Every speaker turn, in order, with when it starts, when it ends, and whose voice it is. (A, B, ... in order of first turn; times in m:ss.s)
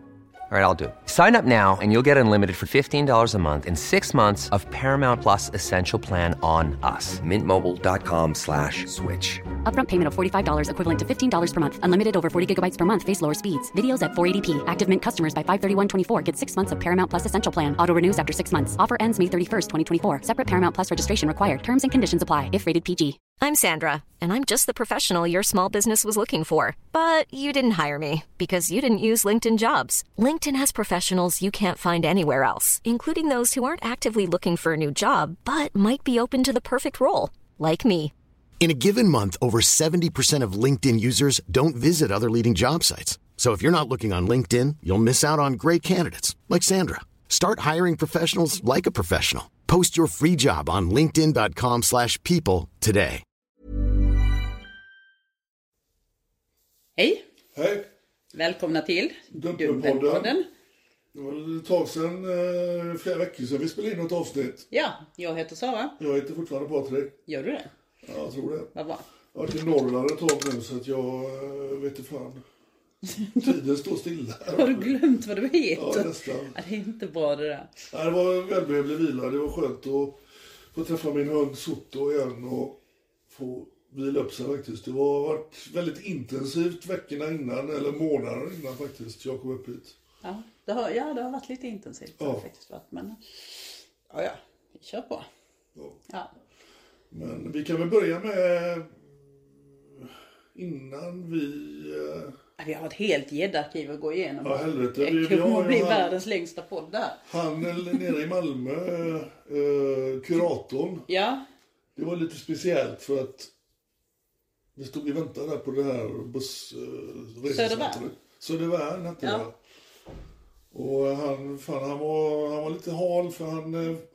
0:00.5-0:09.4 A
0:09.6-0:23.2 B
0:23.4-0:38.1 C
0:38.6-0:53.2 D
0:57.6-0:57.9 E
0:58.3-1:00.5 F
0:59.3-1:00.3 E
1:01.1-1:04.7 E
1:04.7-1:06.0 F
1:06.0-1:07.2 E
1:07.3-1:07.7 F
1:08.0-1:08.7 E
1:08.8-1:09.0 F
1:09.3-1:12.4 E
1:13.2-1:13.4 F
1:13.4-1:14.9 E
1:14.5-1:17.7 F
1:15.8-1:16.6 E
1:17.9-1:20.2 E
1:20.7-1:22.8 E
1:23.3-1:30.0 E
1:30.2-1:33.2 F
1:32.2-1:32.4 E
1:34.1-1:35.3 F
1:37.1-1:42.4 E
1:42.6-1:48.1 F
1:44.4-1:46.2 E
1:47.3-1:51.1 E
1:51.1-1:51.4 F
1:52.0-1:53.5 E
1:54.8-1:59.5 E
1:57.4-1:58.1 F
1:59.2-1:59.5 F
2:00.7-2:04.0 E